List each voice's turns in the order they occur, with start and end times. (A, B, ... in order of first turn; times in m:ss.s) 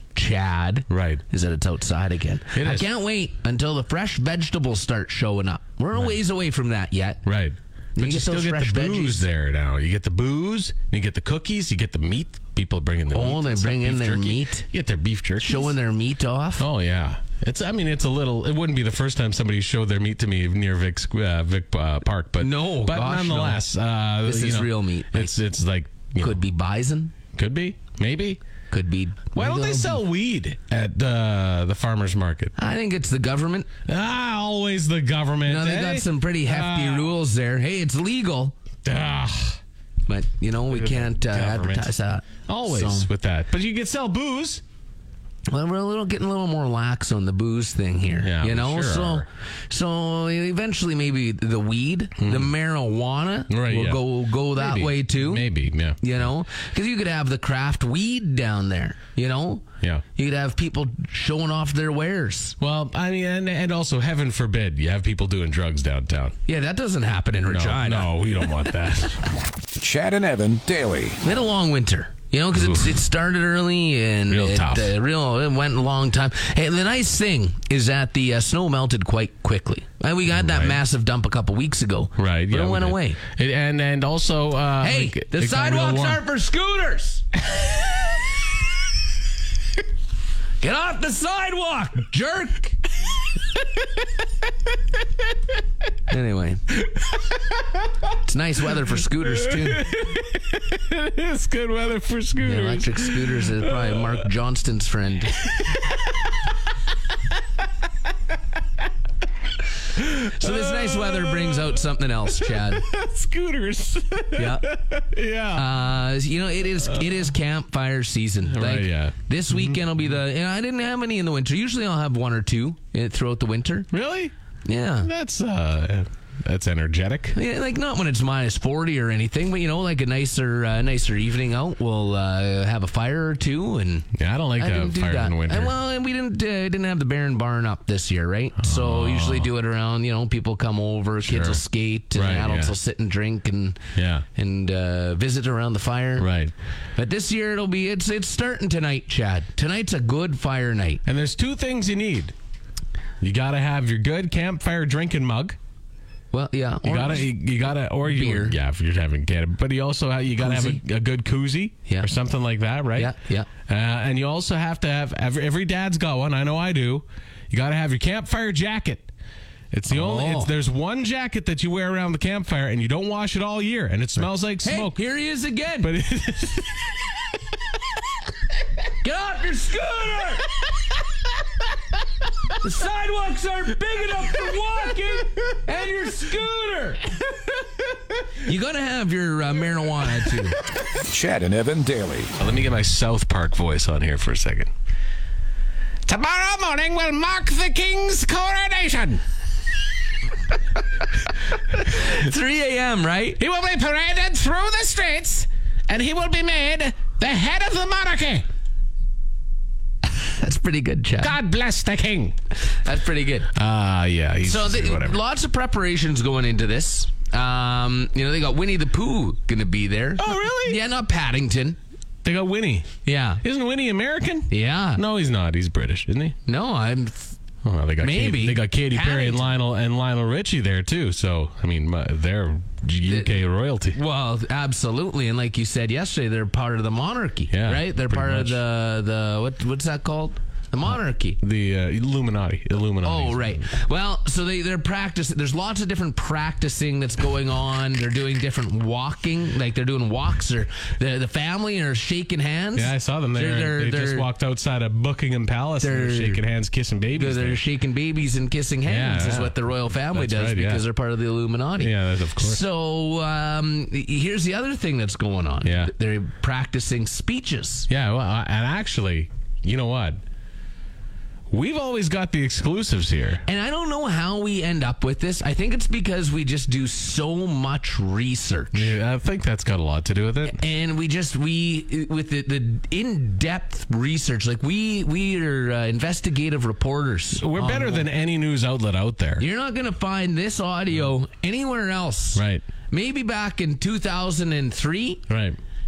0:00.1-0:07.2 A
0:00.9-0:01.2 B
0:02.5-0:02.9 B
0:07.2-0:15.8 B
0:08.0-0:09.3 A
0:13.1-0:14.7 A
0:15.4-0:16.7 A
0:16.6-0:26.4 B
0:22.4-0:23.6 A
0:24.2-0:25.3 A
0:26.2-0:27.1 A
0:27.4-0:28.4 B
0:28.7-0:30.0 A
0:29.4-0:32.6 B
0:32.6-0:33.7 A
0:33.9-0:37.2 B
0:35.4-0:38.6 A
0:38.8-0:39.6 B
0:40.1-0:43.1 A
0:40.7-0:41.9 B
0:42.5-0:44.6 B
0:45.5-1:02.6 A
0:48.2-0:49.3 B
0:52.2-0:52.5 B
0:53.5-0:56.2 B
1:02.6-1:06.4 B
1:06.5-1:08.2 A
1:07.5-1:09.2 B
1:09.8-1:11.2 C
1:11.2-1:23.2 A
1:12.6-1:13.0 B
1:14.3-1:14.9 B
1:20.3-1:20.8 B
1:22.2-1:26.2 B
1:24.8-1:27.2 A
1:30.6-1:32.8 A
1:36.1-1:36.6 A
1:36.9-1:37.8 B
1:38.2-1:39.9 A
1:39.2-1:44.3 B
1:42.4-1:45.4 A
1:45.5-1:46.3 B
1:50.0-1:55.7 B
1:50.3-1:52.9 A
1:54.4-1:54.7 A
1:55.5-2:03.9 A
1:58.5-1:59.8 B
2:03.9-2:04.3 B
2:04.6-2:05.1 A
2:05.0-2:07.4 B
2:07.3-2:23.8 A
2:14.2-2:15.8 B
2:18.6-2:19.5 B
2:21.2-2:21.6 B
2:22.1-2:22.7 B
2:24.0-2:24.2 B
2:24.3-2:26.3 A
2:26.2-2:26.5 B
2:27.0-2:31.0 A
2:31.0-2:32.3 B
2:33.2-2:35.6 B
2:36.3-2:37.3 A
2:36.8-2:43.2 B
2:38.0-2:38.6 A
2:40.4-2:40.8 A
2:43.0-2:43.5 A
2:43.7-2:49.1 B
2:49.7-2:55.0 B
2:49.9-2:50.5 A
2:54.6-2:55.9 A
2:55.8-2:57.1 B
2:59.0-3:00.5 A
3:02.6-3:07.2 A
3:08.3-3:10.6 A
3:11.0-3:12.3 C
3:12.4-3:14.7 B
3:16.1-3:19.2 B
3:21.8-3:23.4 A
3:23.4-3:28.4 B
3:30.2-3:31.4 A
3:31.2-3:32.4 B
3:32.7-3:33.5 A
3:33.6-3:35.2 B
3:34.4-3:41.8 A
3:40.2-3:40.8 B
3:42.2-3:42.9 B
3:43.0-3:43.4 A
3:43.4-3:46.4 B
3:44.5-3:45.0 A
3:46.4-3:47.4 A
3:47.6-3:54.0 B
3:48.0-3:49.5 A
3:53.1-4:01.4 A
3:57.5-3:58.6 B
4:00.9-4:03.7 B
4:03.0-4:14.3 A
4:12.8-4:17.6 B
4:15.8-4:16.5 A
4:17.1-4:27.9 A
4:18.8-4:20.8 B
4:21.8-4:22.6 B
4:25.6-4:25.9 B
4:27.9-4:30.2 B
4:31.5-4:33.4 B
4:33.5-4:39.0 A
4:38.7-4:40.6 B
4:40.4-4:48.1 A
4:47.3-4:49.5 B
4:49.4-4:55.2 A
4:52.4-4:52.6 B
4:55.3-4:55.6 B